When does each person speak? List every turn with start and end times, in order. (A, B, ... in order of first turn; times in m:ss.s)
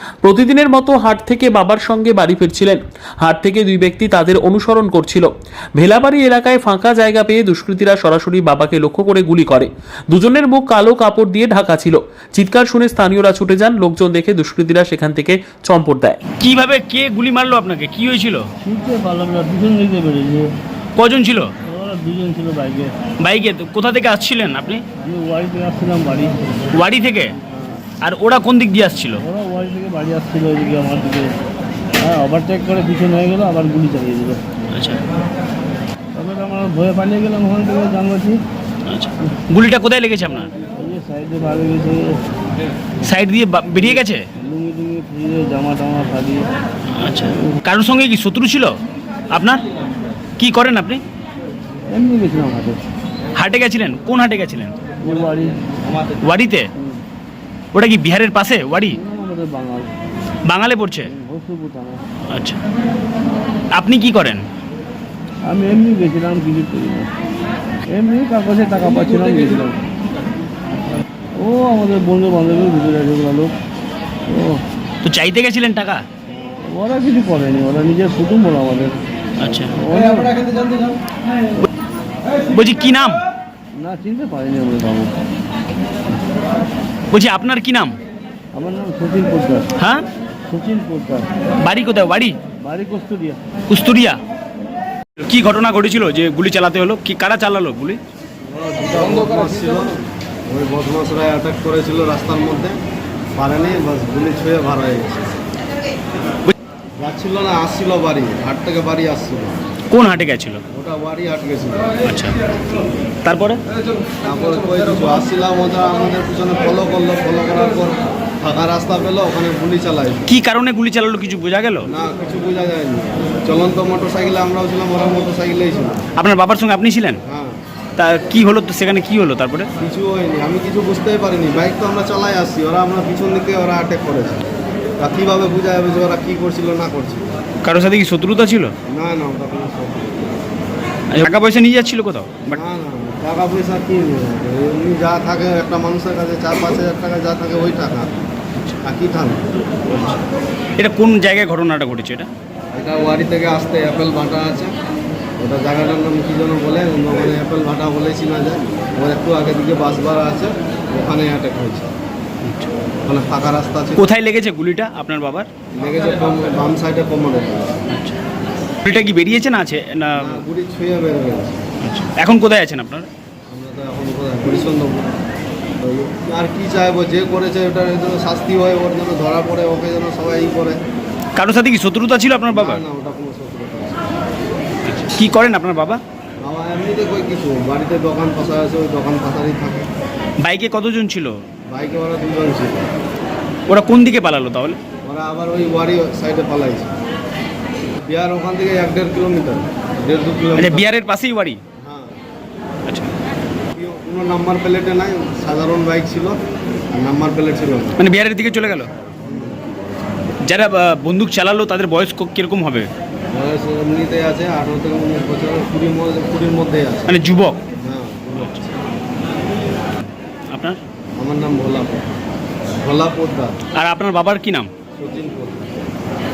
0:00.2-0:16.2 A
0:16.4-0:18.5 B
0:18.6-0:20.5 C
0:21.0-0:21.5 B
0:21.6-0:22.9 C
0:23.2-0:24.8 B
0:25.0-0:26.4 C
0:26.7-0:27.3 B
0:27.4-0:27.8 C
0:28.0-0:29.2 B
0:29.2-0:31.3 C
0:32.0-0:34.4 C
0:34.7-0:35.0 B
0:36.1-0:38.4 C
0:38.9-0:40.5 B
0:40.7-0:42.2 C
0:43.0-0:44.2 B
0:43.9-0:46.5 C
0:47.0-0:48.8 B
0:49.3-0:49.6 B
0:50.4-0:51.0 B
0:51.9-0:52.8 C
0:53.4-0:54.7 B
0:55.0-0:55.6 C
0:56.2-0:56.7 B
0:57.7-0:59.0 B
0:58.9-0:59.9 C
1:00.5-1:01.1 B
1:01.1-1:02.0 C
1:02.3-1:02.6 B
1:03.8-1:04.4 B
1:05.4-1:07.1 C
1:07.9-1:09.8 C
1:11.4-1:13.5 C
1:14.3-1:14.6 C
1:15.0-1:16.0 B
1:16.4-1:19.0 C
1:19.4-1:19.7 B
1:19.7-1:20.9 C
1:22.5-1:23.2 B
1:23.8-1:25.2 C
1:27.1-1:28.0 B
1:28.5-1:29.7 C
1:29.8-1:30.0 B
1:30.5-1:31.3 C
1:31.6-1:32.4 B
1:32.6-1:33.4 C
1:33.7-1:34.2 B
1:35.2-1:38.0 B
1:38.4-1:42.8 D
1:43.4-1:45.3 D
1:47.0-1:49.5 D
1:49.9-1:50.6 B
1:50.7-1:52.0 D
1:52.0-1:52.4 B
1:53.2-1:53.6 B
1:54.2-2:00.3 D
2:00.3-2:01.9 B
2:01.9-2:06.0 D
2:06.2-2:07.2 B
2:07.2-2:07.6 D
2:08.0-2:09.7 B
2:09.8-2:14.5 D
2:15.0-2:17.4 D
2:17.6-2:18.7 B
2:18.9-2:20.2 D
2:21.1-2:22.6 B
2:22.5-2:28.2 D
2:28.8-2:30.1 D
2:29.9-2:30.2 B
2:30.8-2:32.3 B
2:32.7-2:34.7 D
2:35.4-2:41.9 D
2:42.4-2:42.7 B
2:43.0-2:44.0 D
2:44.0-2:45.5 B
2:45.8-2:47.8 D
2:47.9-2:48.2 B
2:48.8-2:50.4 B
2:50.1-2:51.6 D
2:51.8-2:53.1 B
2:53.5-2:55.2 D
2:55.8-3:00.8 D
3:01.4-3:02.8 B
3:02.5-3:04.1 D
3:04.8-3:06.0 B
3:06.4-3:09.9 D
3:10.4-3:11.4 B
3:11.7-3:12.9 D
3:13.7-3:14.8 B
3:15.0-3:16.9 D
3:18.0-3:20.9 D
3:20.5-3:21.6 B
3:21.8-3:22.2 D
3:23.8-3:26.4 D
3:26.9-3:28.0 D
3:28.0-3:28.9 B
3:29.2-3:29.7 D
3:30.5-3:32.9 B
3:33.3-3:37.2 D
3:37.1-3:37.6 B
3:37.8-3:38.8 D
3:40.5-3:40.8 B
3:41.2-3:42.2 D
3:42.8-3:43.6 D
3:43.7-3:44.7 B
3:45.0-3:45.7 D